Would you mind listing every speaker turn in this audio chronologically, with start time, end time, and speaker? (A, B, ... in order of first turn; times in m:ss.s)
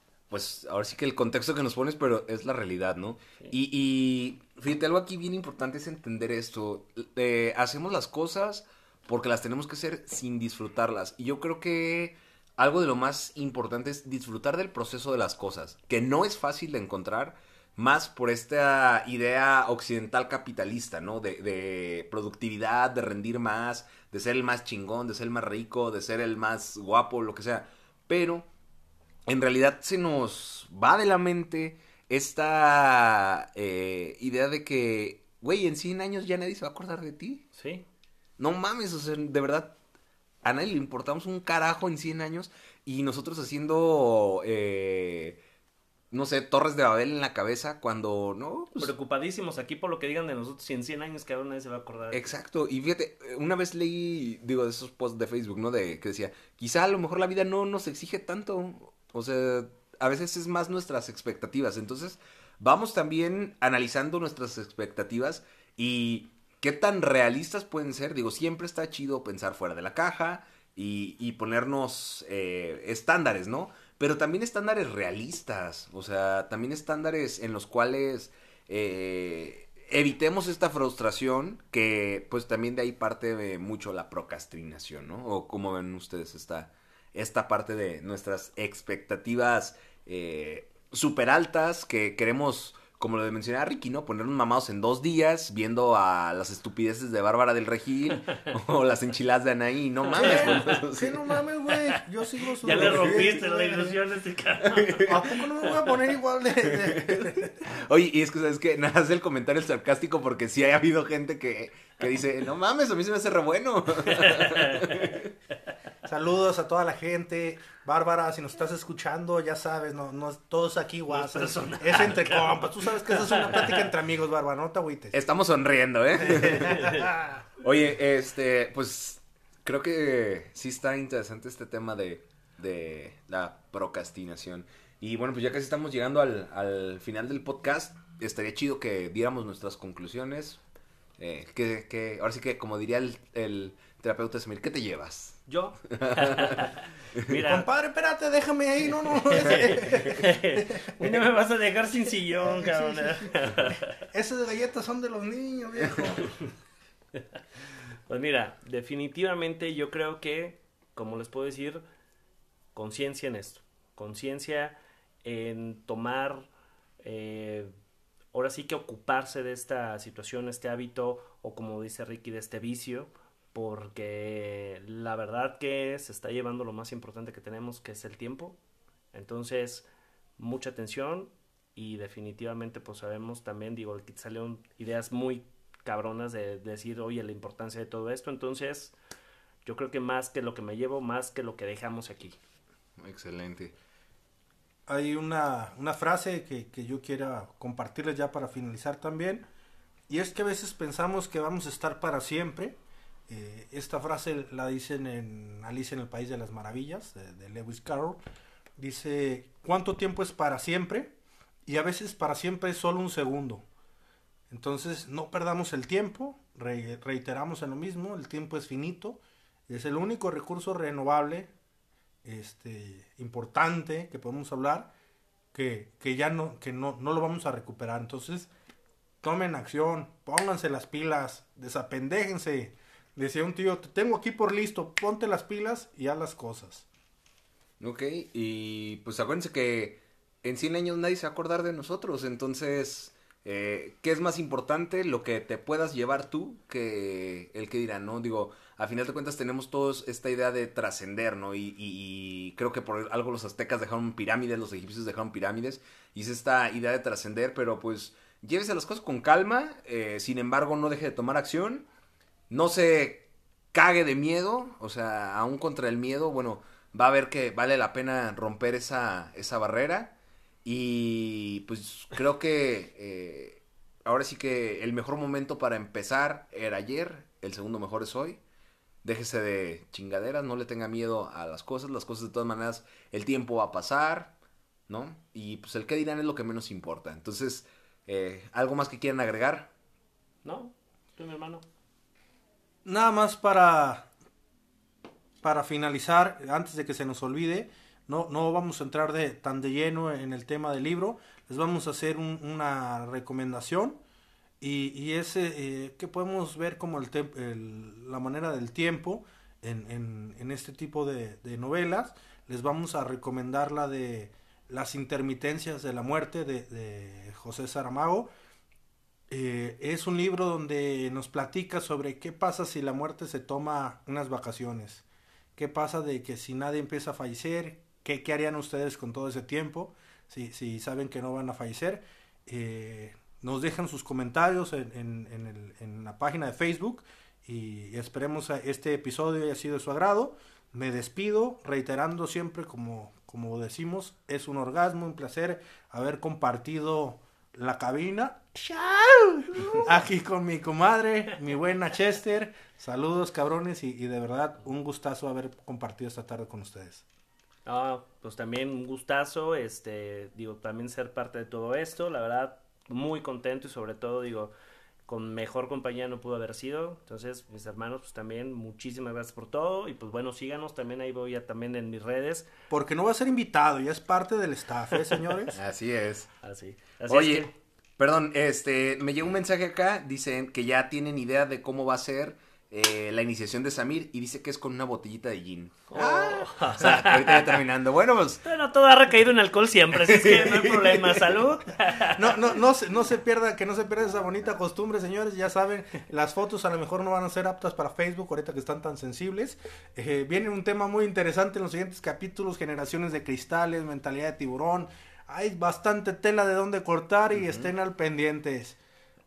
0:00.3-0:28.5 A
0:29.3-0:37.4 A
0:37.5-0:37.9 B
0:38.4-0:39.8 A
0:40.4-0:45.4 A
0:46.1-0:48.9 A
0:48.8-0:52.3 B
0:52.1-1:41.3 A
1:40.2-1:40.8 B
1:40.2-1:44.0 C
1:42.6-1:45.7 B
1:42.7-1:43.2 A
1:44.6-1:45.4 A
1:45.1-1:47.6 C
1:46.6-1:55.3 A
1:54.1-1:54.9 B
1:56.1-2:05.2 C
2:01.1-2:03.8 B
2:05.1-2:07.1 A
2:06.2-2:07.4 C
2:07.6-2:20.6 A
2:21.2-2:27.2 A
2:25.5-2:27.7 B
2:27.4-2:31.2 C
2:29.2-2:34.0 B
2:32.4-2:36.4 C
2:38.1-2:41.8 B
2:42.7-2:46.5 B
2:47.0-2:47.7 B
2:48.3-2:58.6 B
2:59.1-3:09.0 B
3:09.6-3:12.4 B
3:13.0-3:13.7 A
3:14.9-3:19.4 C
3:20.1-3:22.8 C
3:23.3-3:28.2 C
3:28.8-3:31.1 C
3:31.7-3:33.6 C
3:34.5-3:41.5 C
3:42.2-3:44.9 C
3:45.5-3:48.5 C
3:49.2-3:56.9 C
3:57.8-4:21.9 A
4:22.5-4:30.1 A
4:30.6-4:38.4 A
4:39.0-4:44.4 A
4:44.9-4:49.7 A
4:50.4-4:51.6 B
4:52.8-4:54.1 C
4:55.4-5:04.0 C
5:04.6-5:18.3 C
5:19.3-5:25.0 C
5:25.6-5:57.0 C
5:57.7-6:04.5 B
6:05.1-6:12.5 B
6:12.7-6:15.6 C
6:15.5-6:16.3 A
6:16.4-6:17.5 B
6:17.1-6:28.4 A
6:25.9-6:27.6 B
6:28.4-6:32.4 B
6:29.9-6:31.4 A
6:32.0-6:48.8 C
6:47.3-6:47.7 A